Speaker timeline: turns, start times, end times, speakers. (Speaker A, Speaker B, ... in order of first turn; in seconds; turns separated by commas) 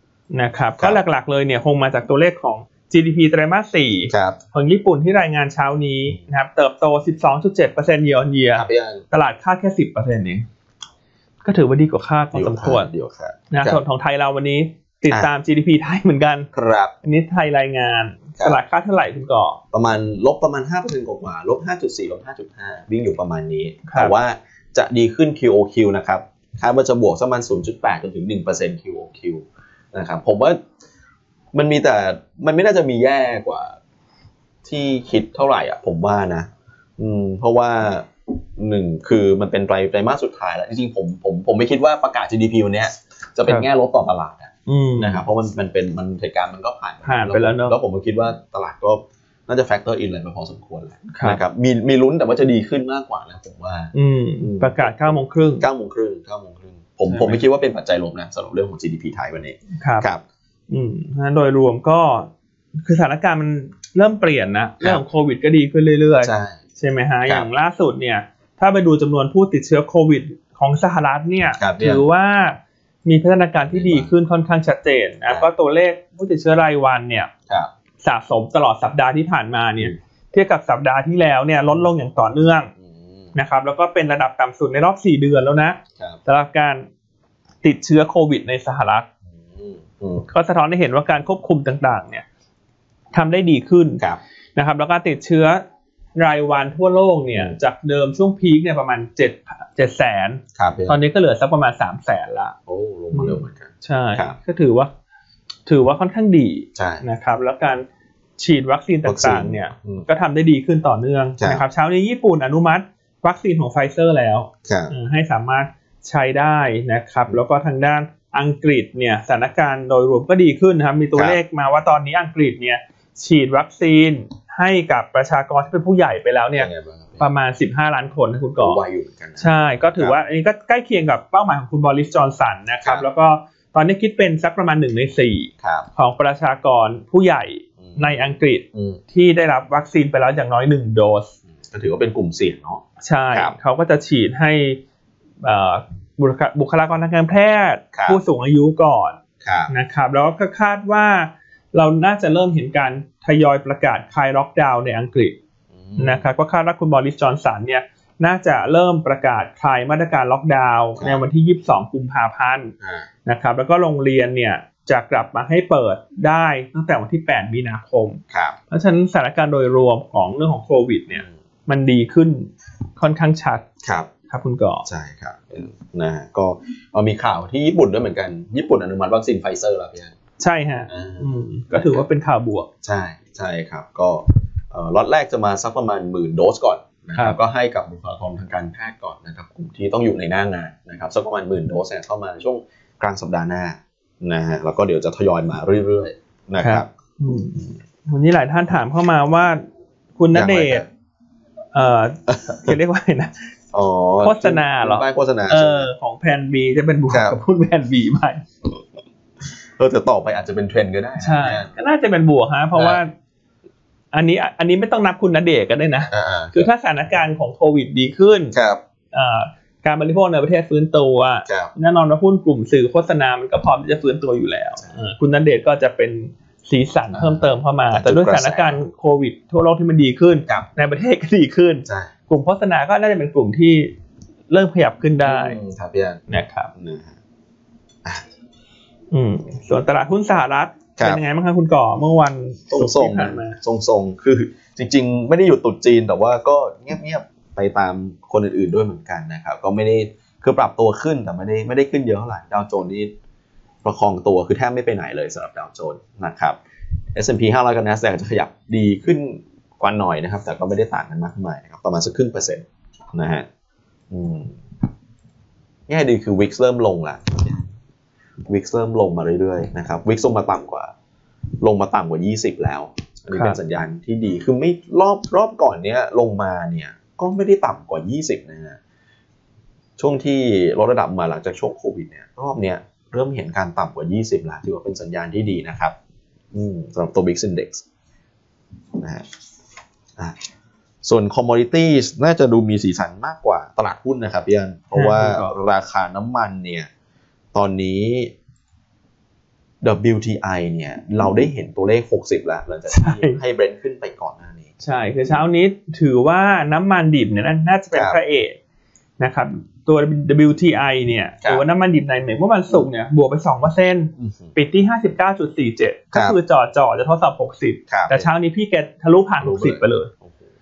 Speaker A: 0.3-10.4, Speaker B: 4.1-4.4, Speaker B: 8.5-9.0, Speaker A: 11.4-12.9, Speaker B: 12.3-13.8, Speaker A: 13.5-16.5, Speaker B: 16.5-16.9, Speaker A: 17.0-19.6, Speaker B: 19.7-30.6, Speaker A: 23.9-24.1, Speaker B: 31.5-33.8, Speaker B: 34.6-60.2, Speaker A: 44.7-45.2, Speaker A: 47.0-47.7, Speaker A: 51.1-51.4, Speaker A: 53.9-55.6, Speaker A: 57.1-57.4, Speaker A: 59.8-60.1, Speaker A: 60.7-62.3, Speaker A: 62.8-77.3, Speaker B: 66.2-66.6, Speaker B: 71.6-72.0, Speaker B: 73.7-74.1, Speaker A: 78.0-82.7, Speaker B: 82.8-83.3, Speaker A: 83.3-86.8, Speaker A: 87.6-89.0, Speaker B: 89.3-90.2, Speaker A: 90.3-92.2, Speaker A: 93.1-94.0, Speaker A: 94.5-95.6, Speaker A: 96.2-102.5, Speaker B: 100.5-101.0, Speaker B: 102.7-104.3, Speaker A: 103.1-104.9, Speaker A: 105.7-107.8, Speaker B: 106.7-107.0, Speaker A: 108.4-128.8, Speaker B: 109.0-110.0, Speaker B: 114.7-114.9, Speaker B: 126.6-127.2, Speaker B: 128.6-130.2, Speaker A: 129.4-141.3, Speaker B: 135.6-135.9, Speaker B: 137.8-138.2, Speaker B: 138.7-139.0, Speaker B: 141.6-143.5, Speaker A: 143.0-144.8, Speaker A: 145.4-155.3, Speaker B: 147.9-148.2, Speaker B: 149.4-149.7, Speaker B: 155.7-156.3, Speaker A: 156.0-162.7, Speaker A: 163.2-173.7, Speaker B: 168.3-168.6, Speaker B: 173.8-174.1, Speaker A: 174.3-174.8, Speaker B: 174.8-180.1, Speaker A: 180.4-182.7, Speaker B: 180.9-182.0, Speaker B: 182.8-196.9, Speaker A: 196.6-199.6, Speaker A: 200.2-200.8, Speaker B: 200.3-200.8, Speaker A: 201.7-203.5, Speaker B: 202.3-202.7, Speaker B: 203.7-205.9, Speaker A: 204.2-208.4, Speaker B: 207.1-207.3, Speaker B: 209.8-211.7, Speaker A: 211.2-213.1, Speaker B: 212.7-213.0, Speaker A: 214.1-218.5, Speaker B: 216.1-216.7, Speaker B: 218.5-218.8, Speaker A: 219.1-233.9, Speaker B: 221.5-221.7, Speaker B: 227.1-228.8, Speaker B: 231.8-232.1, Speaker A: 234.5-235.6, Speaker B: 235.2-237.1, Speaker A: 236.3-236.7, Speaker A: 239.1-243.6, Speaker B: 242.7-253.1, Speaker B: 253.8-256.6, Speaker B: 257.1-263.4, Speaker B: 264.1-264.6, Speaker B: 265.9-267.7, Speaker B: 268.4-270.9, Speaker B: 271.6-278.8, Speaker A: 273.3-273.6, Speaker B: 280.0-285.9, Speaker B: 286.5-287.8, Speaker B: 289.0-289.2, Speaker B: 290.2-290.4, Speaker B: 291.0-296.9, Speaker A: 294.9-295.5, Speaker B: 297.5-298.3, Speaker B: 299.8-304.7, Speaker A: 302.9-303.4, Speaker A: 304.8-308.6, Speaker B: 307.9-308.2, Speaker A: 309.2-320.1, Speaker B: 314.2-314.6, Speaker B: 316.1-316.4, Speaker B: 317.9-318.3, Speaker B: 319.4-320.4